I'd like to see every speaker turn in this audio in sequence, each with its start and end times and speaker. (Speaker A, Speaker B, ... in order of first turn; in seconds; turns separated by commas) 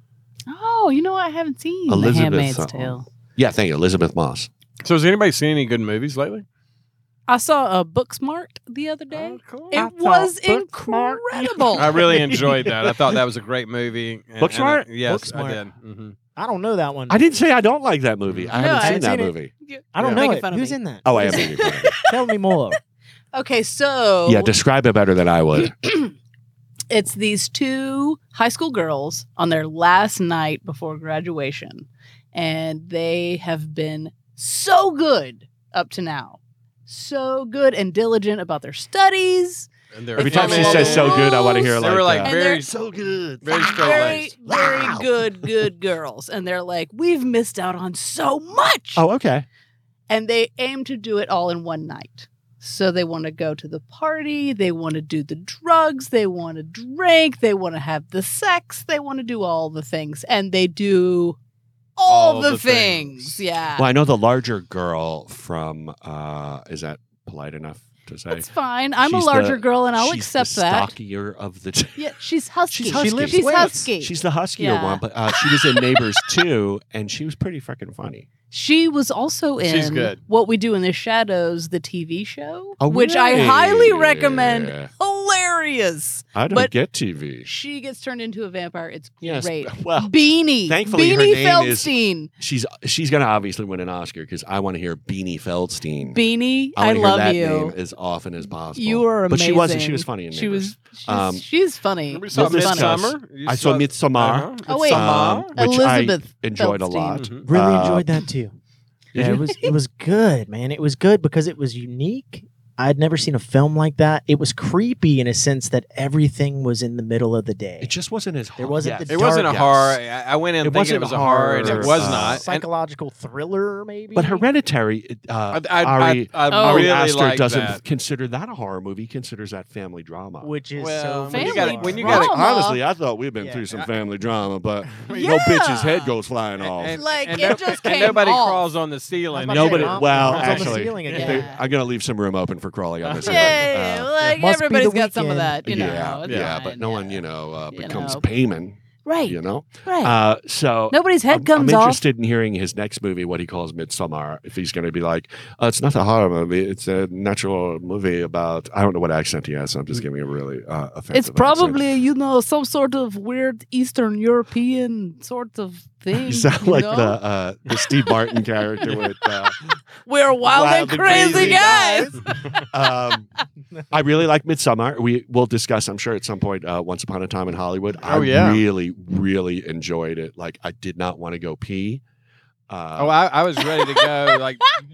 Speaker A: 0.5-3.1, Speaker B: 1.9-4.5, Speaker C: 4.8-6.5, Speaker A: 7.3-11.9, Speaker C: 9.1-9.8, Speaker D: 9.7-13.0, Speaker C: 11.8-16.1, Speaker B: 14.4-14.8, Speaker D: 15.0-15.6, Speaker D: 16.4-17.2, Speaker B: 17.1-19.5, Speaker C: 18.3-18.5, Speaker A: 18.6-22.1, Speaker D: 18.6-19.3, Speaker D: 19.9-22.8, Speaker C: 20.0-20.2, Speaker B: 21.0-22.0, Speaker A: 23.3-24.5, Speaker B: 24.2-25.8, Speaker A: 25.8-26.1, Speaker A: 26.9-42.7, Speaker C: 39.9-42.7, Speaker B: 40.2-45.0, Speaker C: 43.4-44.3, Speaker A: 43.5-49.0, Speaker B: 49.0-49.5, Speaker A: 50.1-61.4, Speaker A: 62.0-63.9, Speaker C: 62.1-63.4, Speaker B: 63.8-68.5, Speaker A: 68.3-70.9, Speaker B: 69.0-72.1, Speaker A: 72.0-76.1, Speaker B: 72.7-78.3, Speaker D: 72.8-73.9, Speaker A: 78.5-86.7, Speaker C: 79.6-80.2, Speaker B: 82.8-84.9, Speaker B: 86.3-87.5, Speaker A: 87.4-92.3, Speaker B: 89.2-96.2, Speaker A: 96.1-97.8, Speaker B: 96.7-101.4, Speaker A: 98.7-102.9, Speaker C: 102.1-105.5, Speaker B: 102.3-108.2, Speaker A: 104.7-107.3, Speaker C: 107.1-107.5, Speaker D: 107.4-108.6, Speaker B: 109.1-109.6, Speaker D: 109.1-117.9, Speaker B: 117.8-120.0, Speaker D: 118.6-119.6, Speaker C: 119.1-122.7, Speaker B: 120.6-122.5, Speaker D: 121.7-124.5, Speaker B: 124.1-130.5, Speaker C: 125.5-127.8, Speaker A: 126.5-127.0, Speaker D: 130.4-132.3, Speaker C: 130.8-132.3, Speaker A: 131.3-132.8, Speaker B: 132.0-137.0, Speaker D: 133.4-133.9, Speaker C: 135.0-135.3, Speaker A: 135.1-136.1, Speaker C: 136.6-141.4, Speaker A: 136.9-138.7, Speaker D: 139.3-141.5, Speaker B: 139.5-144.1, Speaker A: 141.1-141.6, Speaker C: 143.0-143.7, Speaker A: 143.2-148.2, Speaker D: 144.2-145.9, Speaker B: 145.6-161.8, Speaker C: 146.2-146.6, Speaker A: 149.1-150.2, Speaker A: 150.9-152.0, Speaker A: 161.1-167.2, Speaker B: 166.1-169.8, Speaker A: 170.1-172.2, Speaker B: 170.4-173.3, Speaker D: 171.1-172.2, Speaker B: 173.9-182.0, Speaker C: 178.1-178.6, Speaker B: 182.7-183.2, Speaker C: 183.0-184.7